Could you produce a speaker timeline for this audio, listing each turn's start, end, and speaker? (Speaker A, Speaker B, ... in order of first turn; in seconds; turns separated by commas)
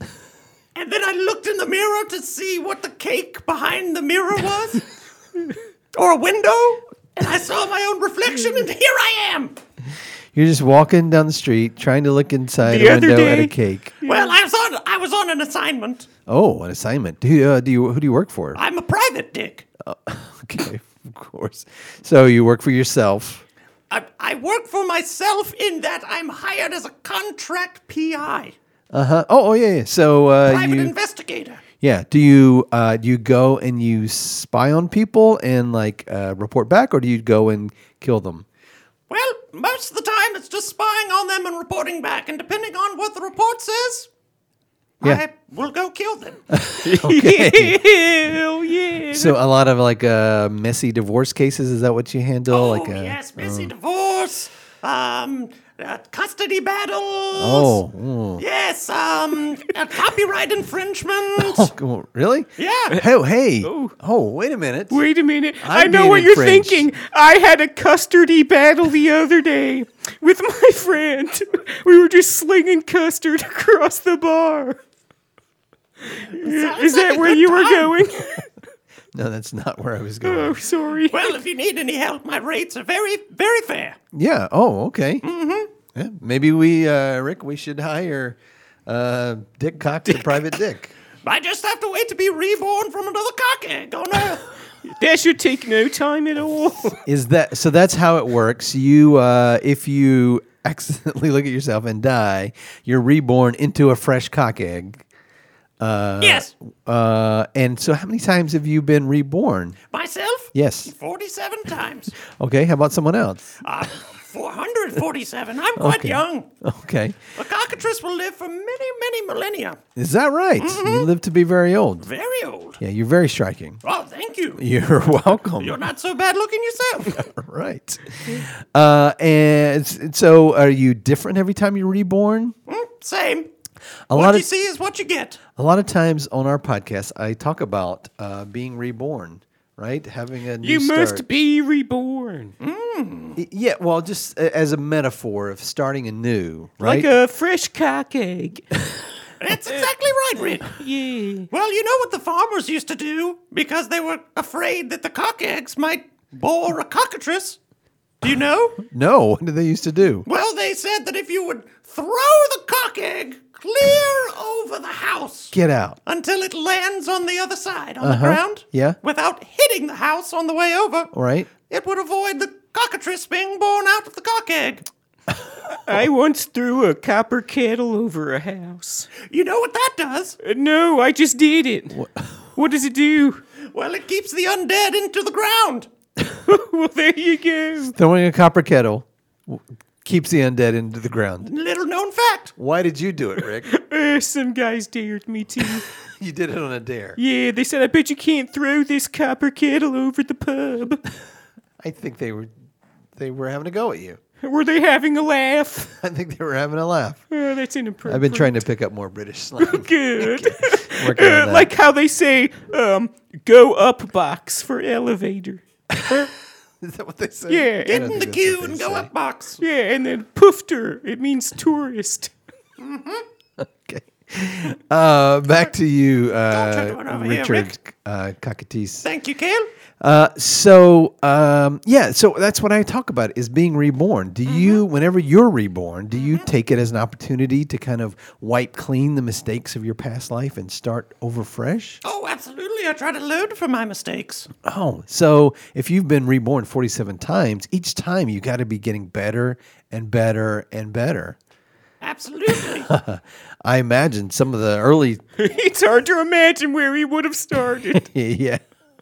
Speaker A: 0.7-4.8, Speaker A: 5.9-9.6, Speaker B: 10.3-13.9, Speaker C: 12.6-14.3, Speaker A: 14.0-16.1, Speaker B: 16.3-18.6, Speaker A: 18.5-19.6, Speaker B: 19.8-23.4, Speaker A: 23.9-28.5, Speaker B: 28.9-30.9, Speaker A: 30.4-31.6, Speaker B: 31.8-38.5, Speaker A: 39.1-44.1, Speaker A: 45.0-46.4, Speaker B: 46.5-47.8, Speaker C: 46.8-49.4, Speaker B: 49.1-53.7, Speaker A: 52.5-57.8, Speaker B: 57.4-58.4, Speaker A: 58.4-61.7, Speaker B: 61.4-65.0, Speaker A: 62.6-63.0, Speaker C: 63.6-63.9, Speaker C: 64.9-74.8, Speaker B: 65.6-66.9, Speaker C: 76.1-78.5, Speaker A: 76.4-78.0, Speaker B: 79.1-80.6, Speaker C: 80.2-81.3, Speaker A: 81.1-84.0, Speaker B: 84.1-85.2, Speaker A: 85.2-85.7, Speaker B: 85.9-90.9, Speaker A: 91.2-94.5, Speaker C: 94.8-97.0, Speaker B: 97.0-105.0, Speaker B: 105.8-109.8, Speaker A: 106.2-106.5, Speaker A: 109.9-112.1, Speaker B: 110.5-110.9, Speaker B: 112.3-113.6, Speaker A: 113.6-116.5, Speaker B: 115.8-117.2, Speaker A: 117.3-119.8, Speaker B: 120.0-122.1, Speaker A: 120.6-121.1, Speaker A: 122.0-122.8, Speaker B: 122.8-123.8, Speaker A: 123.8-124.6, Speaker B: 124.5-125.8, Speaker A: 125.6-127.2, Speaker B: 127.1-132.5, Speaker A: 132.7-133.5, Speaker B: 134.1-134.5, Speaker A: 134.1-135.4, Speaker B: 135.6-141.2, Speaker C: 140.6-142.5, Speaker A: 142.6-143.4, Speaker B: 143.3-147.1, Speaker C: 146.8-148.7, Speaker A: 149.4-150.8, Speaker C: 150.6-151.5, Speaker A: 151.5-157.6, Speaker A: 158.2-158.8, Speaker B: 158.8-160.2, Speaker A: 160.2-165.5, Speaker B: 165.5-166.0, Speaker A: 166.1-171.1, Speaker B: 168.0-169.0, Speaker B: 171.1-171.5, Speaker A: 171.7-174.8, Speaker C: 175.7-179.1, Speaker A: 179.2-180.4, Speaker C: 180.4-182.0, Speaker B: 181.9-182.3, Speaker C: 182.6-183.4, Speaker A: 183.7-185.9, Speaker C: 186.4-187.9, Speaker B: 187.9-191.5, Speaker A: 191.4-192.5, Speaker B: 192.6-193.7, Speaker C: 193.7-195.8, Speaker B: 196.1-197.2, Speaker C: 197.2-201.0, Speaker B: 201.8-202.5, Speaker B: 203.2-204.2, Speaker C: 204.4-205.9, Speaker B: 206.0-207.2, Speaker C: 207.3-208.5, Speaker B: 208.1-211.7, Speaker C: 209.6-215.6, Speaker B: 215.9-219.1, Speaker C: 217.5-218.1, Speaker A: 217.8-219.6, Speaker C: 219.6-222.3, Speaker A: 222.8-223.2, Speaker B: 223.6-229.1, Speaker A: 226.5-227.7, Speaker A: 229.0-229.7, Speaker B: 230.0-242.0, Speaker A: 234.5-234.8, Speaker A: 242.0-244.5, Speaker B: 244.6-251.4, Speaker A: 252.0-252.9, Speaker B: 252.8-255.2, Speaker C: 255.4-258.1, Speaker B: 257.9-258.6